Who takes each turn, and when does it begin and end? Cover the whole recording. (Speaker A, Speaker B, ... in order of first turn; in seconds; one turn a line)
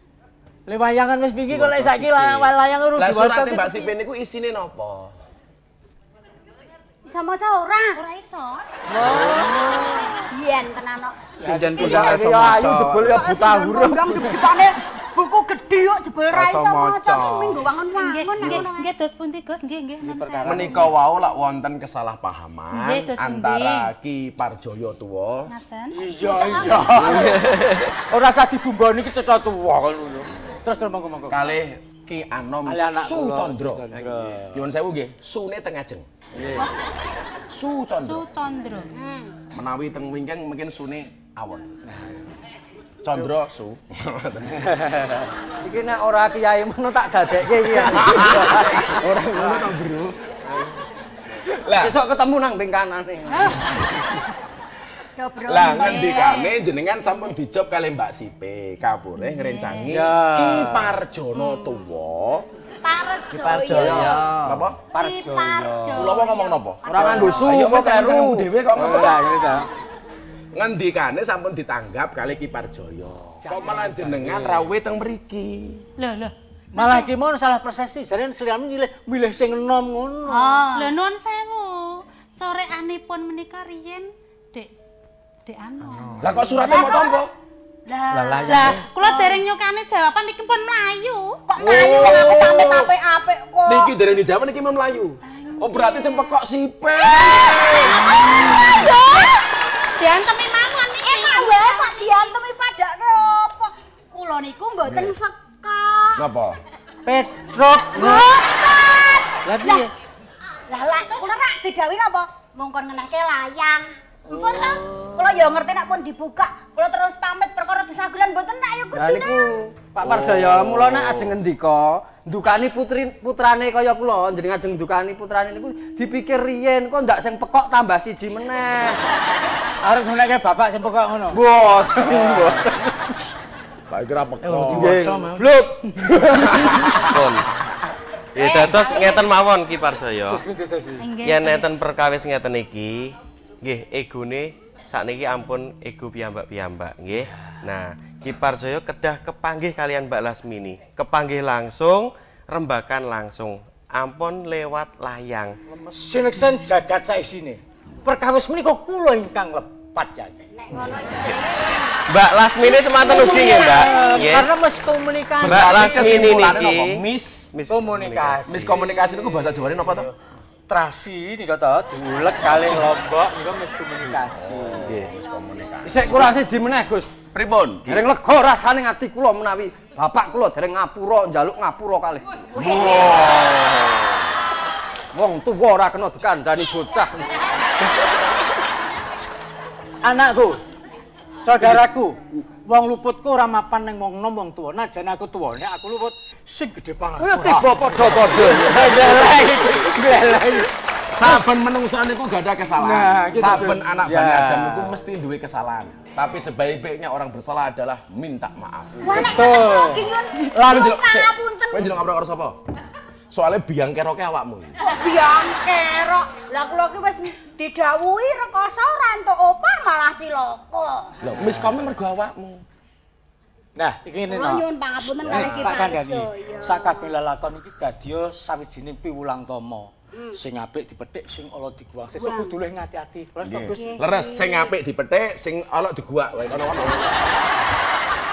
Speaker A: 0.7-3.8
Speaker B: 1.6-2.4
Speaker B: 3.0-5.2
Speaker C: 7.1-8.0
Speaker D: 8.0-8.7
Speaker A: 9.0-9.8
Speaker E: 9.0-9.5
Speaker D: 9.2-10.1
Speaker C: 9.5-11.3
Speaker A: 11.4-12.2
Speaker B: 11.4-13.2
Speaker E: 11.7-14.4
Speaker C: 13.0-18.9
Speaker B: 16.3-17.7
Speaker D: 18.0-20.8
Speaker A: 20.0-20.9
Speaker B: 20.4-25.5
Speaker D: 22.7-23.9
Speaker D: 25.5-26.1
Speaker A: 25.9-31.4
Speaker C: 26.2-26.9
Speaker B: 31.3-33.9
Speaker A: 32.7-34.6
Speaker B: 34.5-36.1
Speaker E: 36.4-36.7
Speaker B: 37.5-38.3
Speaker D: 38.0-38.9
Speaker C: 38.9-39.4
Speaker B: 39.5-41.8
Speaker B: 43.0-44.7
Speaker A: 44.6-45.3
Speaker E: 45.6-49.7
Speaker B: 47.7-50.2
Speaker B: 51.4-52.0
Speaker E: 51.8-53.5
Speaker C: 53.3-53.6
Speaker C: 55.2-56.6
Speaker B: 55.5-62.5
Speaker A: 59.8-61.0
Speaker C: 61.4-61.7
Speaker C: 62.8-67.5
Speaker B: 63.6-64.8
Speaker E: 63.8-64.2
Speaker A: 64.9-66.2
Speaker B: 65.9-69.3
Speaker E: 66.9-68.5
Speaker A: 68.7-69.7
Speaker C: 69.0-69.6
Speaker B: 70.5-75.8
Speaker A: 73.4-74.7
Speaker D: 76.0-77.1
Speaker A: 76.7-80.6
Speaker C: 80.3-80.9
Speaker D: 80.7-84.7
Speaker D: 85.5-86.8
Speaker B: 86.2-87.3
Speaker C: 86.6-87.2
Speaker C: 87.9-89.5
Speaker D: 88.3-91.4
Speaker C: 91.5-93.9
Speaker B: 91.6-93.0
Speaker D: 91.9-92.2
Speaker B: 93.7-98.5
Speaker D: 95.2-96.3
Speaker C: 97.0-99.5
Speaker D: 100.0-101.9
Speaker C: 100.9-106.3
Speaker B: 104.8-105.2
Speaker B: 106.2-106.6
Speaker A: 107.0-108.3
Speaker C: 107.6-109.8
Speaker A: 109.4-109.9
Speaker C: 110.7-119.5
Speaker A: 114.4-115.1
Speaker E: 118.9-129.0
Speaker B: 120.1-121.1
Speaker A: 129.8-131.4
Speaker E: 131.3-133.1
Speaker A: 132.1-132.6
Speaker B: 133.9-135.1
Speaker C: 134.6-135.5
Speaker E: 134.6-135.5
Speaker A: 136.0-136.7
Speaker B: 136.2-137.1
Speaker F: 137.0-137.4
Speaker F: 138.3-140.4
Speaker C: 138.4-139.3
Speaker A: 140.3-141.1
Speaker D: 141.0-141.7
Speaker F: 141.2-155.6
Speaker A: 155.9-160.4
Speaker C: 160.6-162.0
Speaker F: 162.1-164.5
Speaker C: 162.7-164.0
Speaker A: 163.0-165.7
Speaker B: 165.4-167.5
Speaker F: 165.4-168.8
Speaker A: 167.7-168.7
Speaker B: 168.5-170.1
Speaker A: 170.7-174.9
Speaker B: 174.1-176.3
Speaker E: 175.8-177.1
Speaker B: 177.3-178.0
Speaker E: 177.9-182.6
Speaker B: 182.6-183.8
Speaker E: 185.1-187.2
Speaker A: 190.0-190.6
Speaker A: 191.4-201.3
Speaker E: 197.2-199.2
Speaker B: 201.1-209.3
Speaker A: 202.8-205.0
Speaker C: 209.0-212.0
Speaker A: 209.1-211.0
Speaker B: 210.6-212.6
Speaker B: 213.3-214.8
Speaker C: 214.8-221.2
Speaker B: 221.2-222.6
Speaker A: 221.4-221.8
Speaker A: 223.8-224.7
Speaker C: 224.3-227.1
Speaker B: 225.2-225.8
Speaker A: 225.2-234.0
Speaker C: 232.2-232.6
Speaker B: 233.4-237.2
Speaker C: 233.7-234.7